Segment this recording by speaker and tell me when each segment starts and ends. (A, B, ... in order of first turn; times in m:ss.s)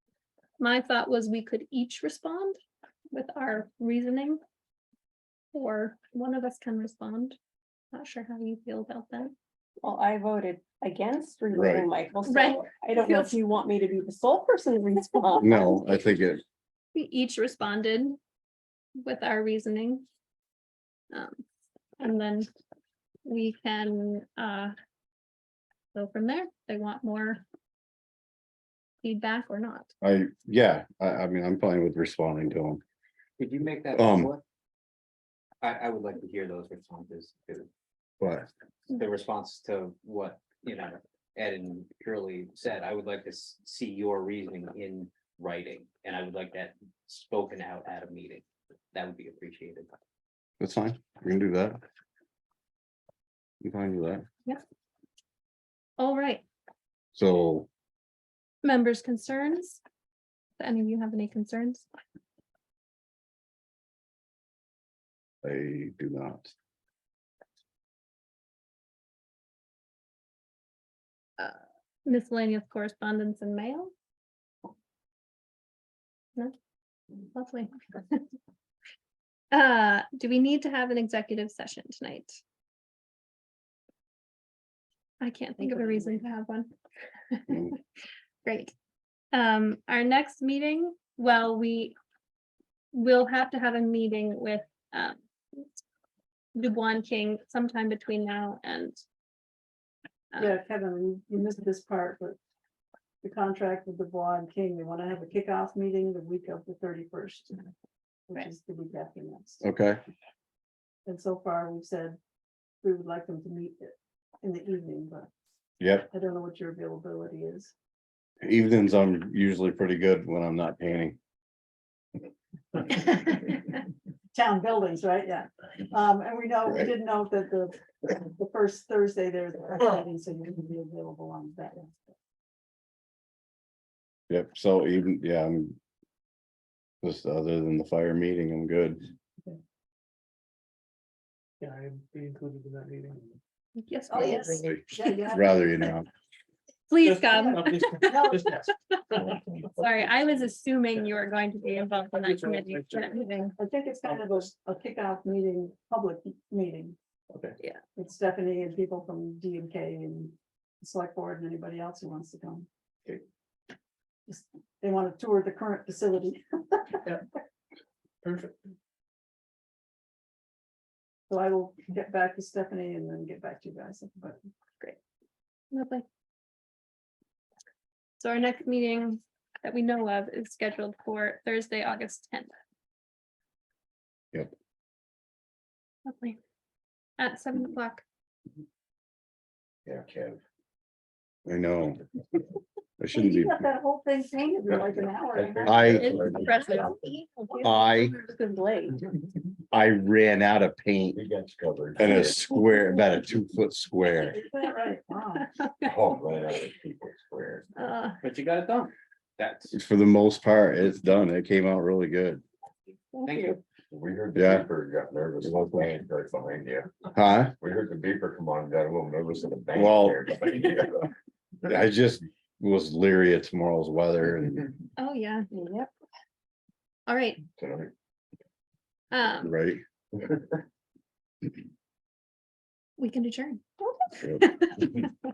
0:00.6-0:02.6 A
0:03.1-0:04.4 A
0:05.5-0:07.4 A
0:07.9-0:09.3 A
0:09.8-0:15.8 B
0:11.5-0:11.9 C
0:12.2-0:13.4 A
0:15.4-0:16.4 C
0:16.9-0:18.2 A
0:19.0-0:20.0 A
0:21.1-0:21.4 A
0:22.0-0:22.5 A
0:23.2-0:24.7 A
0:25.9-0:27.4 A
0:29.0-0:29.9 A
0:30.0-0:32.8 C
0:33.4-0:34.4 D
0:33.9-0:34.3 C
0:35.6-0:37.7 D
0:38.2-0:38.5 C
0:38.9-0:49.9 D
0:50.6-0:51.8 C
0:53.6-0:54.2 C
0:56.0-0:56.4 A
0:57.1-0:57.7 C
0:58.6-0:59.8 A
1:00.6-1:01.8 A
1:05.4-1:06.5 C
1:11.4-1:13.9 A
1:17.3-1:18.2 A
1:19.5-1:22.4 A
1:25.2-1:26.7 A
1:25.6-1:26.2 E
1:27.3-1:27.8 A
1:27.5-1:27.7 C
1:28.4-1:28.7 A
1:29.3-1:31.9 A
1:32.9-1:35.8 A
1:36.6-1:39.0 A
1:40.4-1:42.4 E
1:43.2-1:47.6 E
1:48.3-1:49.6 E
1:49.6-1:50.0 C
1:51.0-1:52.2 E
1:52.8-1:55.3 E
1:55.8-1:56.1 C
1:56.1-1:57.7 E
1:58.4-2:01.2 C
2:04.3-2:12.1 E
2:14.3-2:15.8 C
2:17.0-2:19.0 C
2:21.6-2:23.3 F
2:23.8-2:24.6 A
2:24.1-2:25.9 E
2:24.2-2:26.1 C
2:26.9-2:29.2 A
2:27.1-2:28.7 F
2:27.3-2:28.5 E
2:29.2-2:29.8 G
2:29.7-2:33.5 A
2:32.2-2:33.1 F
2:33.6-2:37.0 E
2:38.0-2:42.7 E
2:44.3-2:47.1 E
2:48.2-2:48.5 F
2:51.3-2:54.4 E
2:55.7-2:56.0 A
2:58.2-3:02.5 A
3:06.0-3:06.4 A
3:07.2-3:08.0 A
3:09.8-3:10.4 G
3:11.4-3:12.0 C
3:13.0-3:13.6 C
3:13.1-3:16.9 E
3:15.3-3:17.0 G
3:15.6-3:16.5 C
3:16.0-3:17.6 A
3:17.6-3:18.2 C
3:17.6-3:19.0 B
3:19.7-3:21.2 C
3:21.1-3:22.4 G
3:22.0-3:24.4 C
3:24.2-3:25.5 E
3:25.5-3:25.8 A
3:25.8-3:27.7 G
3:27.8-3:28.2 A
3:28.2-3:29.7 D
3:29.7-3:32.4 C
3:33.1-3:33.6 B
3:33.2-3:33.6 D
3:33.9-3:41.1 G
3:34.3-3:34.7 C
3:35.4-3:35.9 C
3:37.1-3:37.5 C
3:39.7-3:40.3 C
3:41.6-3:44.7 C
3:45.0-3:45.5 A
3:45.5-3:45.9 B
3:47.1-3:47.4 A
3:47.6-3:47.9 G
3:49.1-3:49.5 A
3:49.4-3:49.8 C
3:50.2-3:50.6 G
3:53.0-3:55.1 A